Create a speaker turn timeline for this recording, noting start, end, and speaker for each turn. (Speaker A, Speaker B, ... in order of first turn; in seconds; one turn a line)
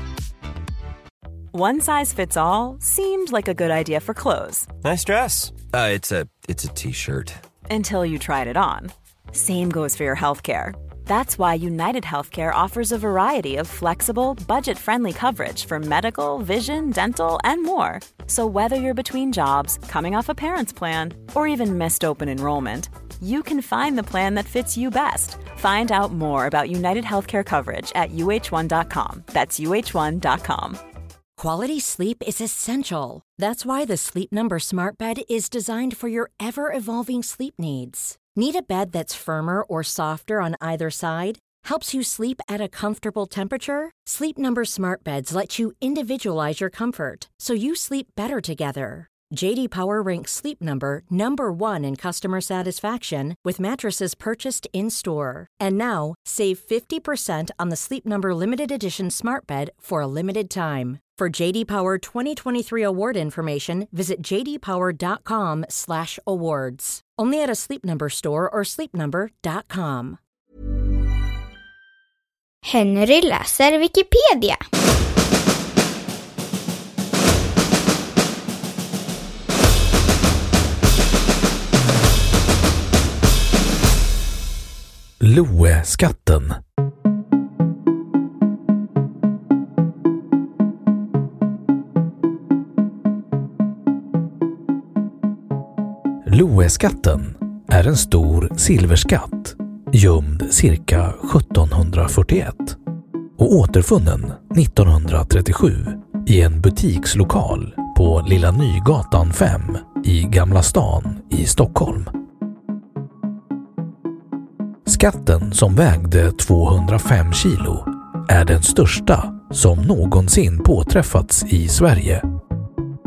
Speaker A: 1.5-4.7
Speaker B: 4.8-7.4
Speaker A: 7.7-30.8
Speaker C: 31.4-70.2
Speaker D: 72.6-74.6
Speaker E: 85.2-86.6
Speaker E: 96.2-102.8
Speaker E: 103.4-112.1
Speaker E: 114.8-122.2